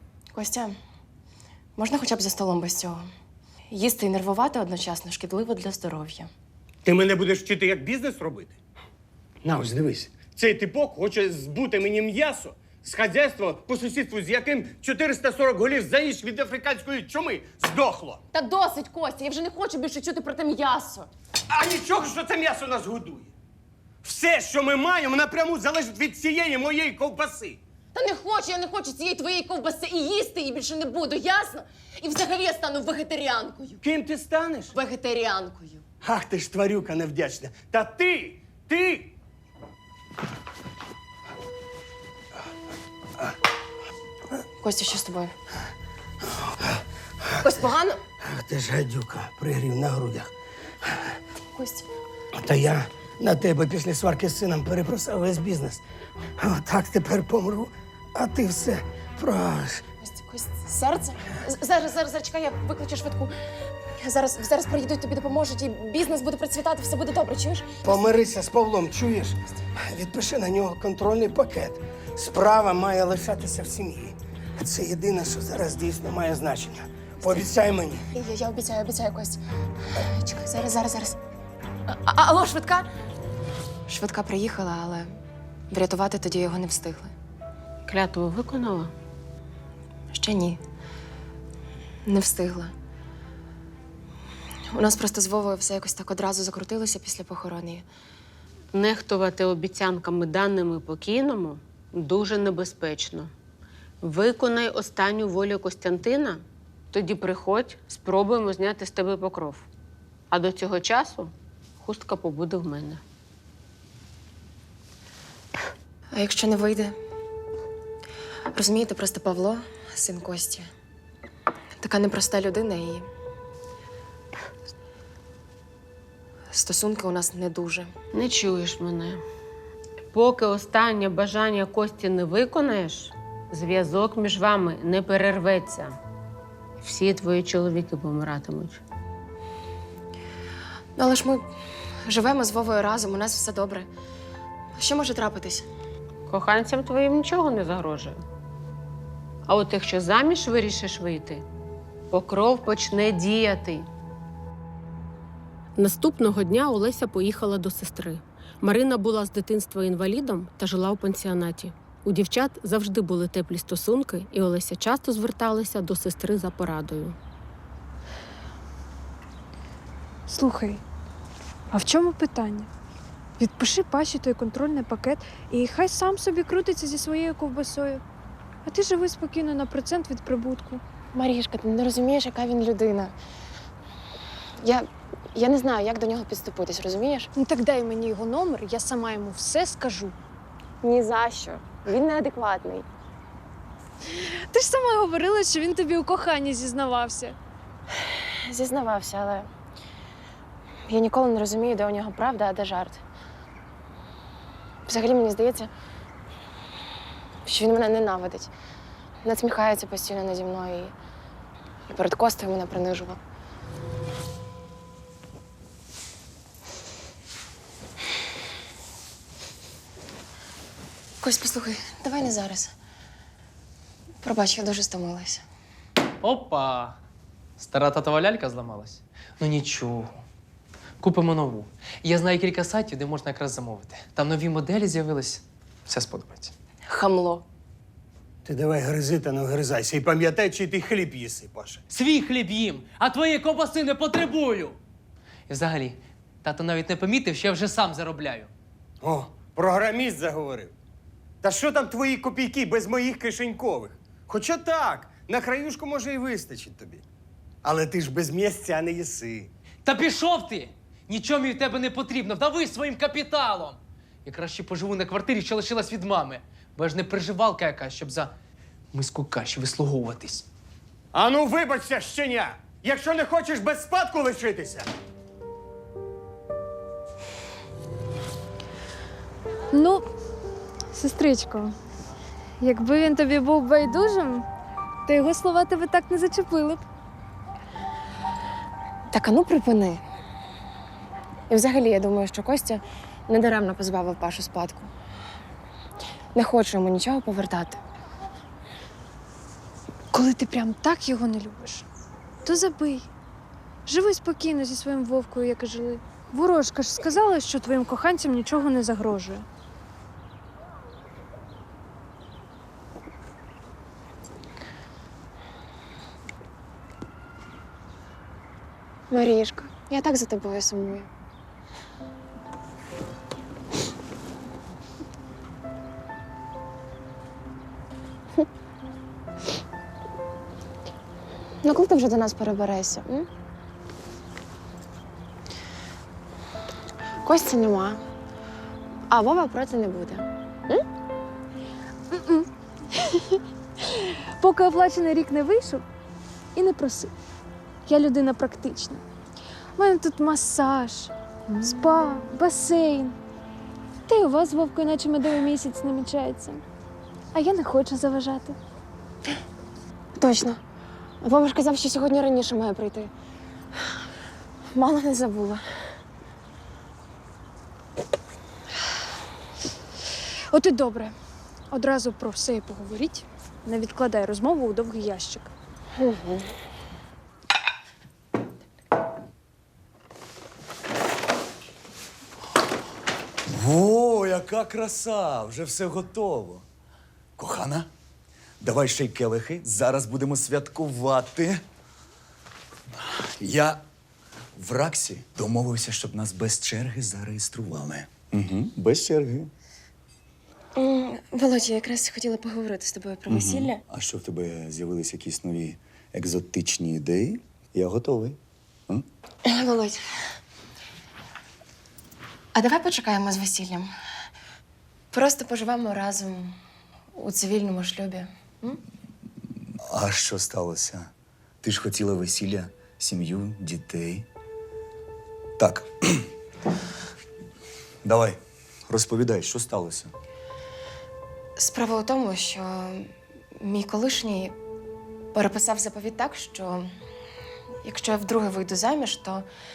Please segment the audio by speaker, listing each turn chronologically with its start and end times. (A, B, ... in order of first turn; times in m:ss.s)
0:00.3-0:00.8 A
0:01.8-0:03.0 A
0:03.7-0:06.3 A
0:06.8-0:08.6 B
0:09.4-0:10.1 C
0:10.1-0:18.2 B
0:18.3-0:21.1 A
0:21.5-0:23.3 B
0:24.0-0:27.6 B
0:27.9-0:33.8 A
0:33.8-0:34.7 B
0:34.7-0:35.8 A
0:36.0-0:39.2 B
0:44.6-0:45.3 A
0:47.4-0:48.0 A
0:48.2-0:50.3 C
0:51.6-0:51.9 A
0:52.4-0:55.8 C
0:56.4-0:59.8 C
1:00.0-1:03.3 A
1:04.0-1:07.8 A
1:07.9-1:18.0 C
1:18.2-1:19.4 A
1:19.9-1:21.2 A
1:21.9-1:22.9 A
1:23.9-1:25.1 A
1:25.7-1:27.1 A
1:27.9-1:28.9 D
1:30.1-1:30.6 A
1:32.1-1:32.7 A
1:34.7-1:37.9 A
1:38.7-1:43.3 D
1:44.0-1:49.7 D
1:50.3-1:53.0 D
1:56.1-1:57.0 A
1:58.5-2:00.7 A
2:01.8-2:03.1 A
2:06.5-2:07.9 A
2:08.1-2:09.2 D
2:10.1-2:16.0 D
2:16.8-2:18.8 D
2:21.0-2:21.5 A
2:22.1-2:23.9 A
2:24.8-2:25.7 A
2:26.3-2:28.2 D
2:29.5-2:31.5 D
2:32.1-2:33.9 D
2:35.8-2:47.2 D
2:50.3-2:50.8 E
2:51.7-2:52.7 E
2:53.4-2:58.0 E
2:58.6-3:00.8 E
3:01.1-3:03.2 A
3:04.6-3:07.3 A
3:07.4-3:10.2 E
3:10.8-3:12.9 A
3:14.0-3:17.4 E
3:18.4-3:19.5 A
3:20.9-3:23.0 A
3:24.9-3:25.7 A
3:27.4-3:28.5 A
3:29.2-3:30.9 A
3:31.9-3:33.2 A
3:41.2-3:42.7 A
3:44.2-3:45.4 A
3:46.2-3:47.0 F
3:47.6-3:50.2 F
3:51.0-3:56.5 F
3:56.9-3:57.4 A
3:58.5-4:01.8 B
3:58.5-3:59.2 C
4:01.9-4:04.8 F
4:05.5-4:08.5 F
4:09.0-4:10.7 B
4:11.4-4:17.0 B
4:17.6-4:19.5 B
4:19.8-4:28.3 F
4:28.9-4:30.5 F
4:31.1-4:34.9 B
4:39.7-4:40.1 E
4:40.9-4:41.7 E
4:42.6-4:44.4 E
4:45.1-4:46.8 E
4:49.1-4:50.0 A
4:51.5-4:54.9 A
4:56.4-4:57.8 A
5:00.1-5:01.9 E
5:02.4-5:03.1 E
5:03.9-5:09.4 E
5:19.1-5:21.1 A
5:31.6-5:33.3 A
5:37.2-5:38.0 A
5:39.1-5:40.8 A
5:42.1-5:45.8 E
5:46.6-5:47.1 E
5:47.9-5:49.0 E
5:49.8-5:53.2 E
5:54.1-5:56.6 E
5:57.3-5:58.6 E
6:00.2-6:00.6 A
6:01.2-6:03.1 A
6:04.8-6:05.6 A
6:10.5-6:11.1 E
6:11.7-6:15.5 E
6:16.0-6:16.4 A
6:23.5-6:26.6 G
6:27.4-6:27.9 G
6:28.6-6:31.6 G
6:33.0-6:33.8 G
6:34.6-6:39.5 G
6:40.8-6:43.8 A
6:43.3-6:49.1 G
6:49.4-6:50.0 A
6:52.6-6:53.9 A
6:55.1-6:56.6 A
6:57.2-6:58.8 A
6:59.9-7:01.1 G
7:01.6-7:04.3 G
7:05.6-7:06.3 G
7:08.0-7:10.1 G
7:11.6-7:14.6 A
7:15.3-7:16.9 A
7:17.8-7:19.5 A